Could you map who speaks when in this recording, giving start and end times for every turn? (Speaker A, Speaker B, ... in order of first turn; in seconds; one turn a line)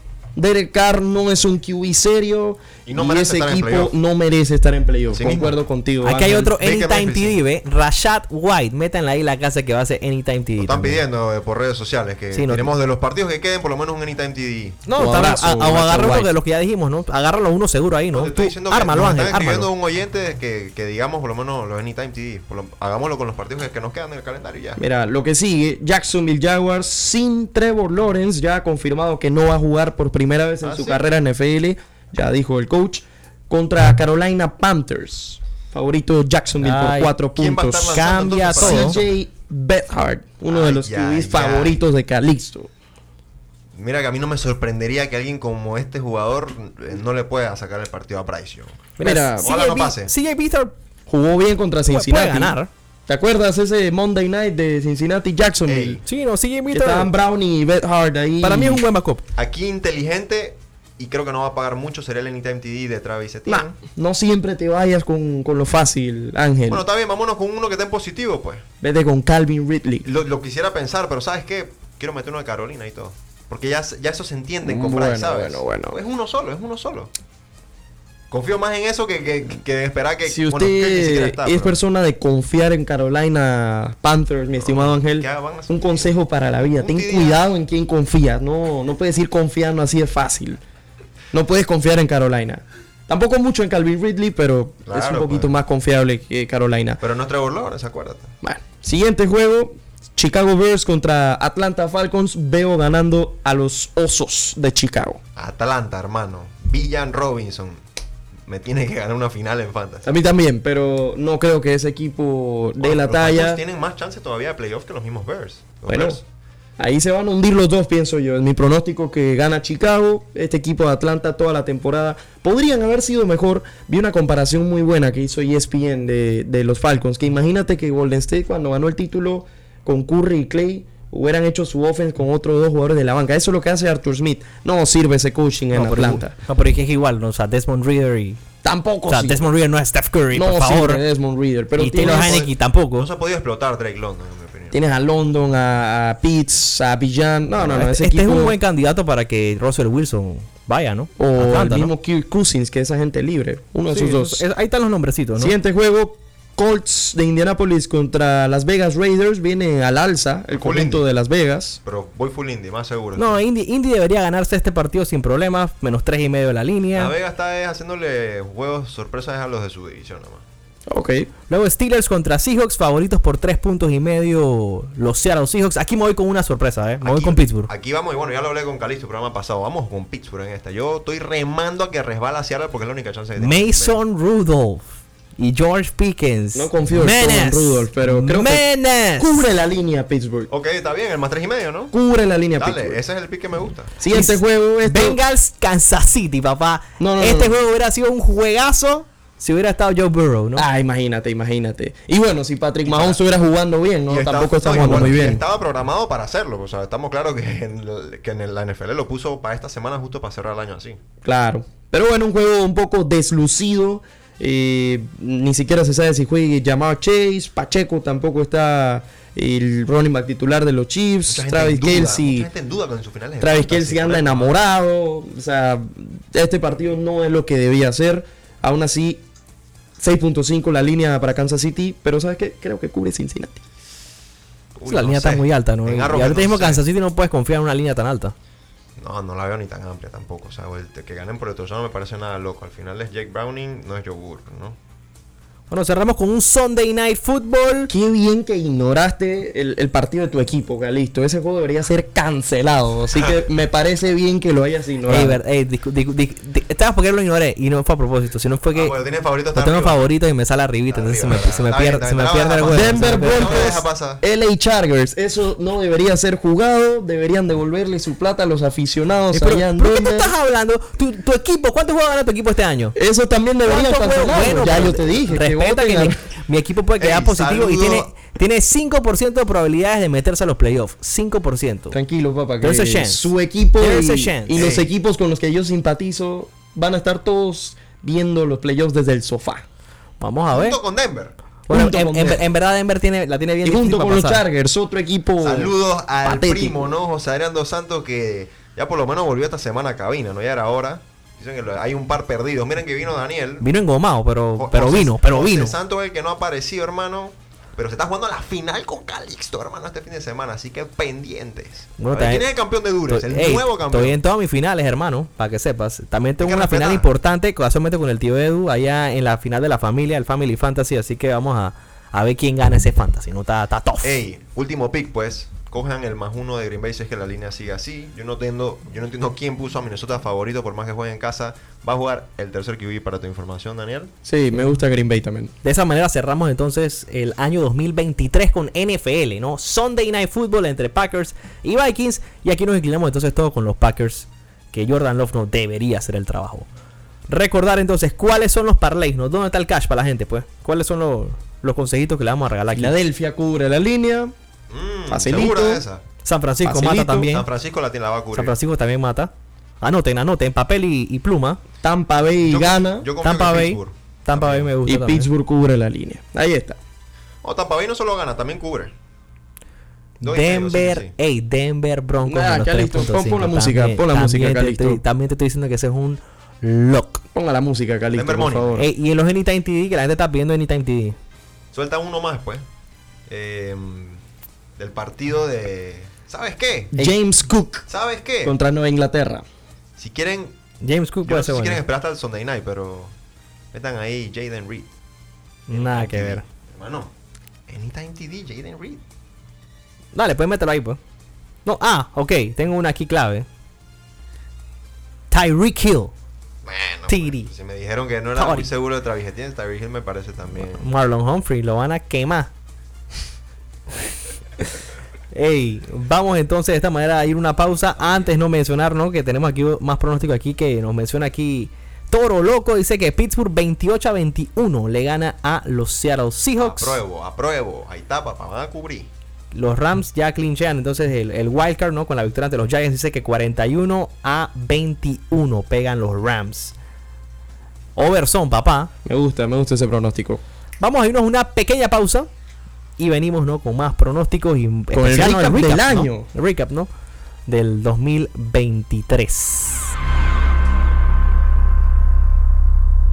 Speaker A: 0.4-6.5
Speaker B: 2.9-3.9
Speaker B: 5.1-5.6
Speaker C: 6.0-11.0
Speaker B: 6.4-7.4
Speaker B: 10.6-14.8
Speaker C: 12.3-12.7
Speaker C: 14.9-19.7
Speaker A: 14.9-16.3
Speaker B: 18.1-24.8
Speaker A: 24.8-42.7
Speaker B: 30.6-31.0
Speaker C: 36.6-37.1
Speaker B: 37.4-39.1
Speaker C: 37.9-39.0
Speaker B: 40.5-41.8
Speaker B: 43.8-50.1
Speaker C: 49.0-50.7
Speaker A: 49.0-49.5
Speaker A: 51.1-52.6
Speaker C: 51.9-52.7
Speaker A: 53.1-56.0
Speaker B: 55.7-56.0
Speaker C: 56.0-57.1
Speaker A: 56.7-58.8
Speaker C: 58.4-59.2
Speaker B: 59.4-63.8
Speaker A: 63.5-66.8
Speaker B: 66.7-68.6
Speaker A: 68.8-70.1
Speaker B: 70.0-77.1
Speaker A: 74.6-76.0
Speaker B: 78.3-81.8
Speaker A: 80.2-90.6
Speaker B: 84.6-86.1
Speaker B: 86.7-87.5
Speaker A: 91.3-97.0
Speaker B: 94.9-95.5
Speaker B: 97.0-98.3
Speaker A: 98.4-105.2
Speaker B: 105.4-107.8
Speaker B: 108.5-110.1
Speaker A: 110.0-113.6
Speaker B: 112.8-116.2
Speaker A: 115.9-116.2
Speaker A: 116.8-136.3
Speaker C: 135.7-138.4
Speaker A: 138.6-139.4
Speaker C: 139.1-141.0
Speaker A: 140.3-142.5
Speaker C: 141.8-143.1
Speaker B: 142.0-144.8
Speaker A: 144.7-148.6
Speaker C: 147.6-151.9
Speaker A: 151.2-154.4
Speaker C: 153.9-155.5
Speaker A: 155.4-161.8
Speaker B: 160.5-161.0
Speaker B: 161.9-163.4
Speaker C: 163.2-167.1
Speaker B: 166.9-170.4
Speaker A: 170.9-171.3
Speaker C: 171.5-177.7
Speaker B: 177.0-184.0
Speaker C: 183.4-184.8
Speaker C: 185.4-189.5
Speaker A: 186.5-188.7
Speaker A: 189.2-190.5
Speaker B: 190.5-191.9
Speaker A: 191.9-193.0
Speaker B: 192.6-194.0
Speaker A: 194.0-195.2
Speaker C: 194.1-200.7
Speaker A: 197.0-197.5
Speaker A: 200.6-205.4
Speaker B: 202.9-203.2
Speaker B: 204.1-211.0
Speaker A: 211.2-222.5
Speaker B: 221.3-224.5
Speaker A: 223.4-229.2
Speaker A: 230.0-233.6
Speaker B: 234.8-236.8
Speaker C: 234.9-238.3
Speaker B: 239.0-244.8
Speaker C: 245.7-247.9
Speaker A: 247.9-255.4
Speaker C: 255.1-259.0
Speaker B: 258.7-260.1
Speaker C: 259.5-263.7
Speaker B: 260.9-264.2
Speaker A: 262.7-270.3
Speaker C: 269.3-273.0
Speaker A: 272.9-276.2
Speaker C: 273.7-282.0
Speaker B: 277.0-278.1
Speaker A: 281.9-289.6
Speaker C: 282.6-284.7
Speaker B: 284.5-284.9
Speaker C: 290.2-290.8
Speaker B: 290.5-291.4
Speaker C: 291.7-294.4
Speaker A: 291.7-292.4
Speaker A: 293.6-296.9
Speaker B: 295.4-303.6
Speaker C: 303.6-305.8
Speaker B: 304.6-314.2
Speaker C: 312.0-312.5
Speaker C: 313.1-324.2
Speaker B: 316.4-317.1
Speaker B: 324.0-334.1
Speaker A: 334.2-335.5
Speaker C: 335.6-346.7
Speaker C: 347.3-352.9
Speaker A: 352.7-354.3
Speaker B: 354.7-356.0
Speaker A: 355.1-355.8
Speaker C: 356.2-357.5
Speaker A: 356.6-357.3
Speaker B: 357.2-358.5
Speaker C: 358.3-361.6
Speaker A: 361.8-363.1
Speaker B: 362.4-364.7
Speaker C: 363.2-365.3
Speaker A: 364.9-366.8
Speaker B: 367.4-368.9
Speaker C: 370.2-377.2
Speaker B: 370.2-371.1
Speaker A: 372.2-375.0
Speaker A: 377.3-378.9
Speaker B: 378.1-378.8
Speaker C: 378.8-381.2
Speaker B: 381.7-382.6
Speaker B: 383.3-384.2
Speaker B: 384.8-387.1
Speaker A: 386.9-387.9
Speaker B: 387.9-388.5
Speaker A: 388.4-389.4
Speaker B: 390.0-390.5
Speaker C: 390.8-391.8
Speaker B: 391.2-393.1
Speaker B: 393.7-394.9
Speaker C: 395.7-396.4
Speaker B: 395.7-397.1
Speaker B: 397.7-399.0
Speaker C: 400.1-401.0
Speaker C: 401.6-403.5
Speaker C: 405.3-406.1
Speaker B: 406.6-410.9
Speaker C: 407.1-407.5
Speaker C: 408.4-408.7
Speaker C: 410.7-412.5
Speaker C: 415.3-427.0
Speaker B: 426.6-429.1
Speaker C: 429.5-436.8
Speaker C: 438.0-438.9
Speaker A: 439.0-440.4
Speaker C: 440.8-442.3
Speaker C: 443.0-446.9
Speaker A: 444.9-446.3
Speaker C: 447.5-449.9